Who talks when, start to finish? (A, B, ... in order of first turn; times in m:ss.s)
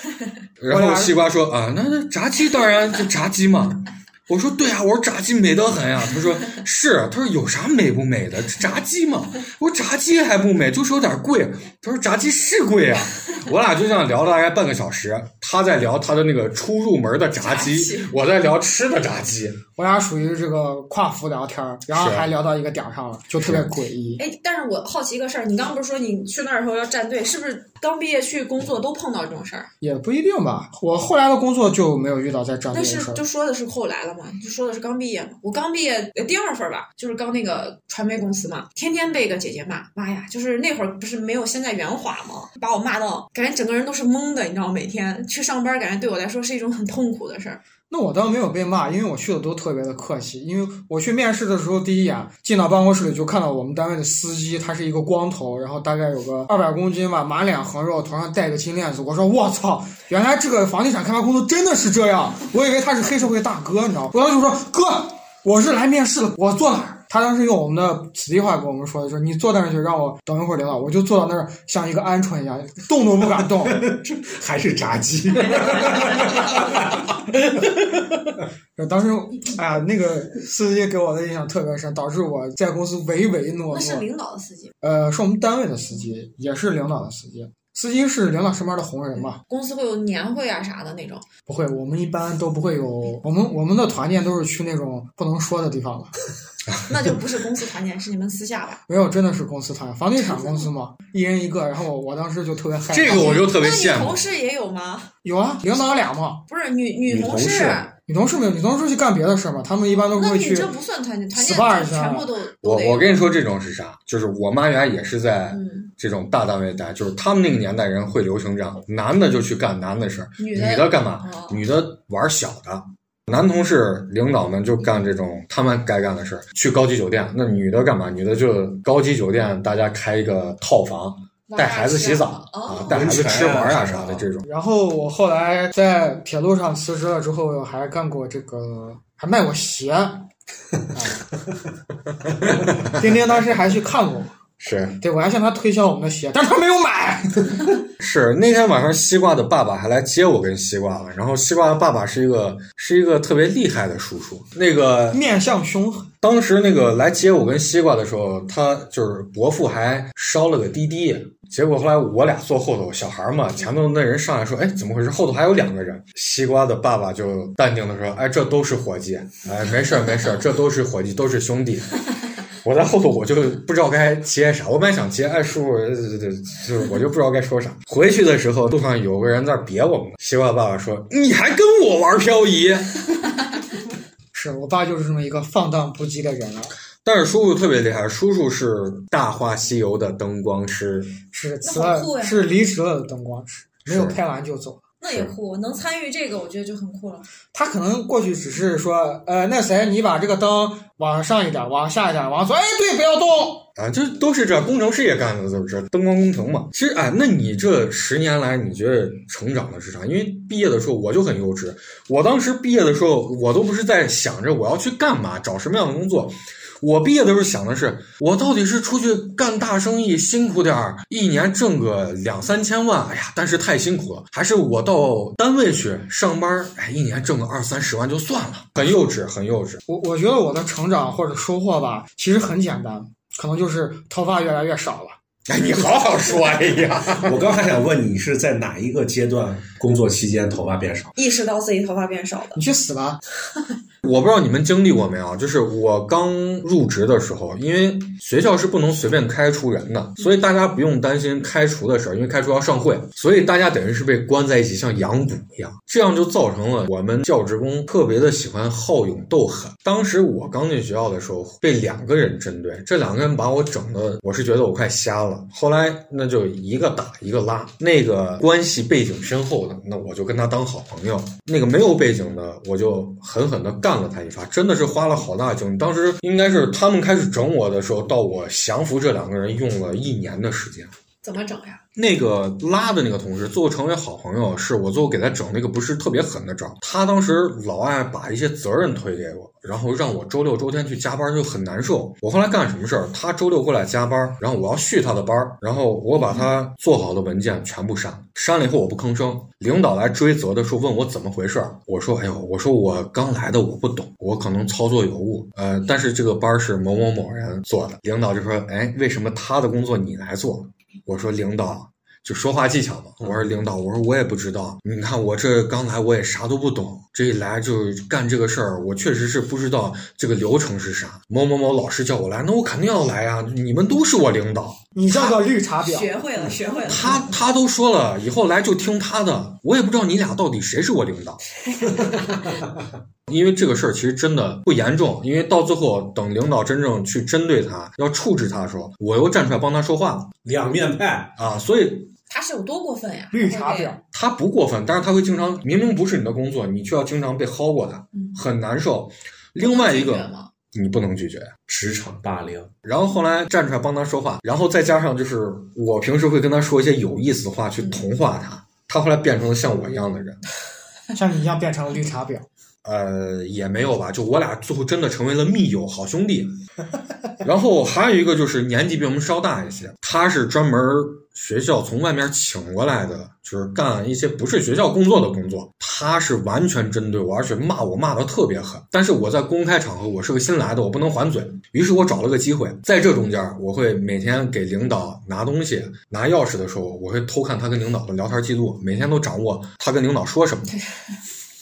0:00.6-0:19.6 A
0:00.7-0:01.2 B
0:17.4-0:18.1 C
0:19.8-0:24.2 B
0:21.9-0:22.3 A
0:24.2-0:29.7 C
0:29.8-0:33.2 B
0:32.7-0:47.6 C
0:47.9-1:13.9 B
1:13.4-1:17.2 D
1:18.8-1:24.1 B
1:23.7-1:24.7 C
1:24.8-1:29.4 B
1:29.5-1:31.2 C
1:31.5-1:36.2 B
1:36.9-1:38.8 C
1:38.9-1:43.5 B
1:42.9-1:44.2 A
1:43.1-1:45.1 C
1:45.2-1:46.4 B
1:46.5-1:47.9 C
1:47.1-1:47.8 D
1:48.1-1:50.7 B
1:50.1-1:53.3 C
1:51.3-1:52.3 B
1:52.6-2:14.5 A
1:55.5-1:55.9 C
2:00.4-2:01.6 C
2:11.5-2:13.1 C
2:12.9-2:14.3 D
2:14.4-2:20.3 B
2:20.9-2:21.3 B
2:22.7-2:23.0 A
2:22.8-2:24.3 B
2:24.6-2:25.0 A
2:25.0-2:27.6 B
2:28.0-2:35.2 A
2:35.1-2:36.1 B
2:36.2-2:51.9 A
2:52.6-3:03.1 A
3:04.3-3:06.7 B
3:07.0-3:11.2 A
3:11.3-3:14.8 B
3:11.6-3:12.4 C
3:13.9-3:14.2 A
3:15.0-3:17.3 C
3:15.1-3:15.4 A
3:17.5-3:23.7 B
3:23.8-3:49.8 A
3:49.9-3:55.2 B
3:55.5-3:57.4 A
3:57.1-4:01.1 D
4:01.2-4:02.6 C
4:02.6-4:03.2 B
4:04.0-4:40.9 A
4:41.2-4:41.8 C
4:42.0-5:24.8 A
5:25.0-5:26.1 B
5:25.1-5:27.3 C
5:26.9-5:31.4 A
5:31.7-5:32.3 C
5:33.3-5:40.3 A
5:40.4-5:41.3 D
5:41.4-5:42.1 A
5:42.3-5:44.0 C
5:43.3-5:44.0 B
5:44.1-5:51.5 A
5:49.6-5:50.5 C
5:51.7-5:52.7 D
5:52.8-6:00.4 A
6:01.1-6:02.5 B
6:02.8-6:06.6 A
6:07.4-6:30.7 A